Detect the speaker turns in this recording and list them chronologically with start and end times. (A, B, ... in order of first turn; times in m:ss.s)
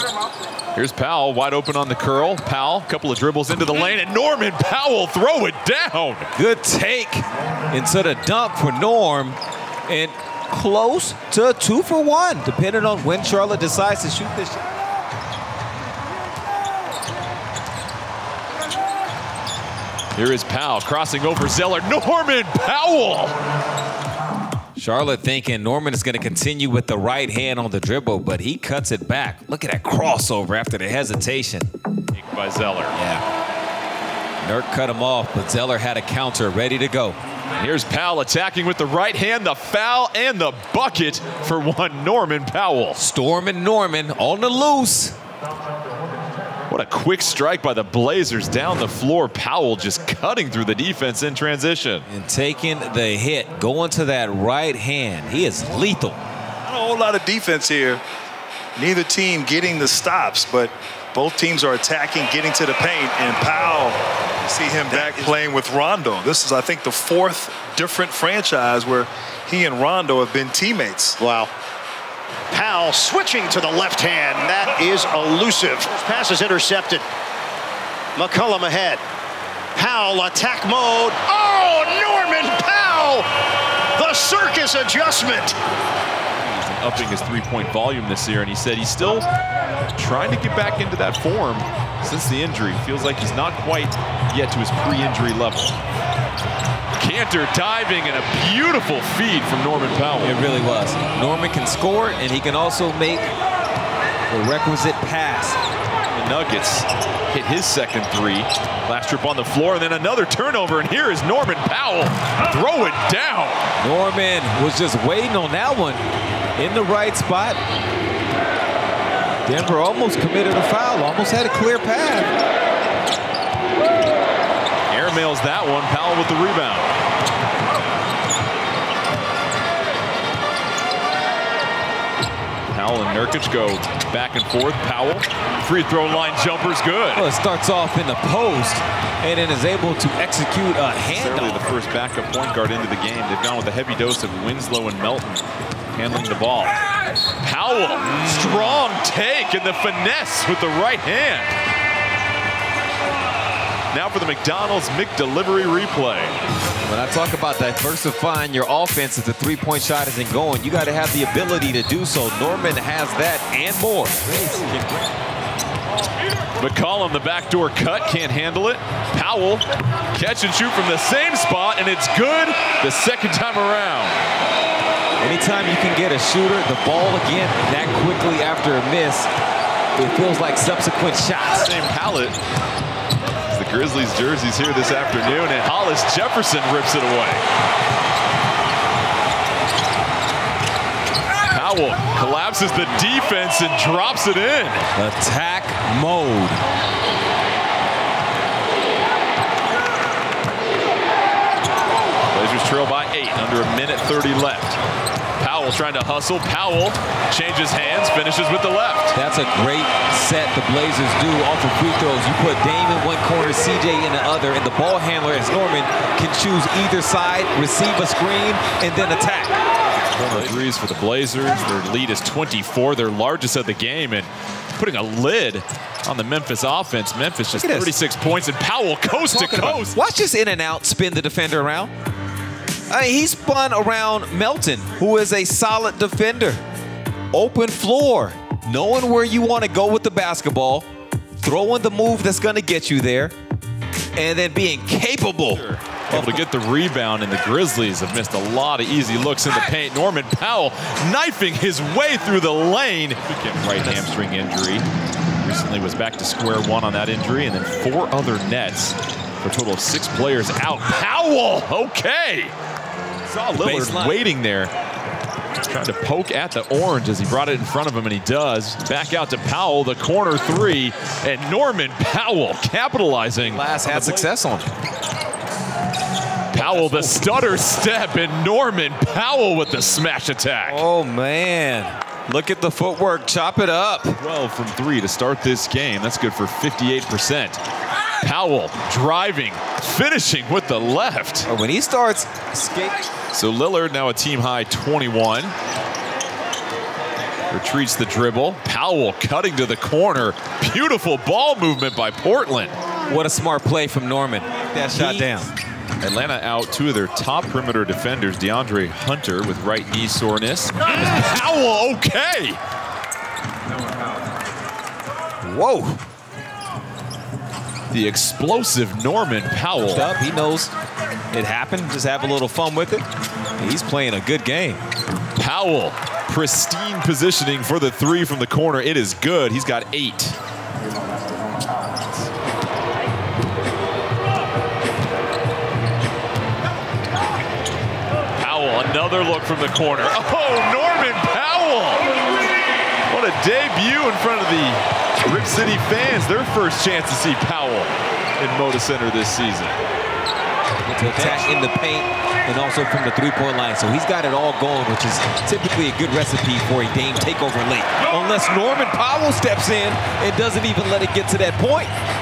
0:00.8-0:06.3 A
0:06.4-0:14.6 B
0:20.2-0:23.3 A
0:24.8-0:31.7 B
0:32.1-0:33.0 A
0:32.9-0:33.2 B
0:34.4-0:37.2 B
0:37.6-0:43.0 A
0:43.0-0:45.2 B
0:46.7-0:52.1 A
0:52.1-0:56.2 B
0:56.7-0:58.0 C
0:58.8-1:11.2 C
1:11.2-1:11.5 D
1:12.5-1:17.1 D
1:18.2-1:19.0 D
1:19.8-1:23.3 D
1:24.0-1:25.6 D
1:26.4-1:29.3 A
1:30.0-1:35.8 A
1:37.0-1:40.4 A
1:40.2-1:43.3 B
1:44.3-1:45.6 B
1:46.1-1:53.7 A
1:53.8-1:56.0 B
1:56.6-1:57.6 B
1:59.5-2:02.3 B
2:04.9-2:06.9 A
2:12.7-2:17.3 A
2:17.2-2:21.7 B
2:21.1-2:26.8 A
2:27.4-2:31.5 A
2:28.0-2:28.8 B
2:33.9-2:36.4 A
2:36.8-2:45.1 B
2:46.6-2:54.2 A
2:55.2-2:59.3 B
3:00.0-3:01.7 B
3:01.6-3:02.4 A
3:03.5-3:07.4 A
3:11.5-3:14.9 A
3:15.0-3:16.6 B
3:22.3-3:24.8 A
3:25.4-3:29.2 A
3:29.2-3:39.6 B
3:40.1-3:50.0 A
3:47.5-3:48.0 B
3:49.2-3:51.9 B
3:52.9-3:56.6 B
3:57.3-4:00.9 B
4:01.4-4:03.3 B
4:04.2-4:06.4 B
4:05.5-4:14.9 A
4:13.8-4:14.1 B
4:15.4-4:22.5 A
4:23.3-4:24.2 B
4:23.3-4:24.7 A
4:25.6-4:34.3 A
4:33.4-4:34.7 B
4:36.5-4:40.8 A
4:36.6-4:37.4 B
4:40.7-4:44.2 B
4:44.2-4:47.6 A
4:48.2-4:51.5 A
4:51.5-4:53.1 B
4:53.3-4:55.6 A
4:57.5-5:02.8 A
5:03.1-5:05.5 B
5:04.9-5:05.3 A
5:06.0-5:12.6 A
5:15.4-5:16.0 B
5:17.9-5:20.1 A
5:19.9-5:20.7 B
5:21.3-5:23.1 B
5:23.6-5:24.8 B
5:25.4-5:30.4 A
5:38.4-5:42.0 A
5:43.1-5:49.7 A
5:50.9-6:01.9 B
5:51.1-5:51.6 A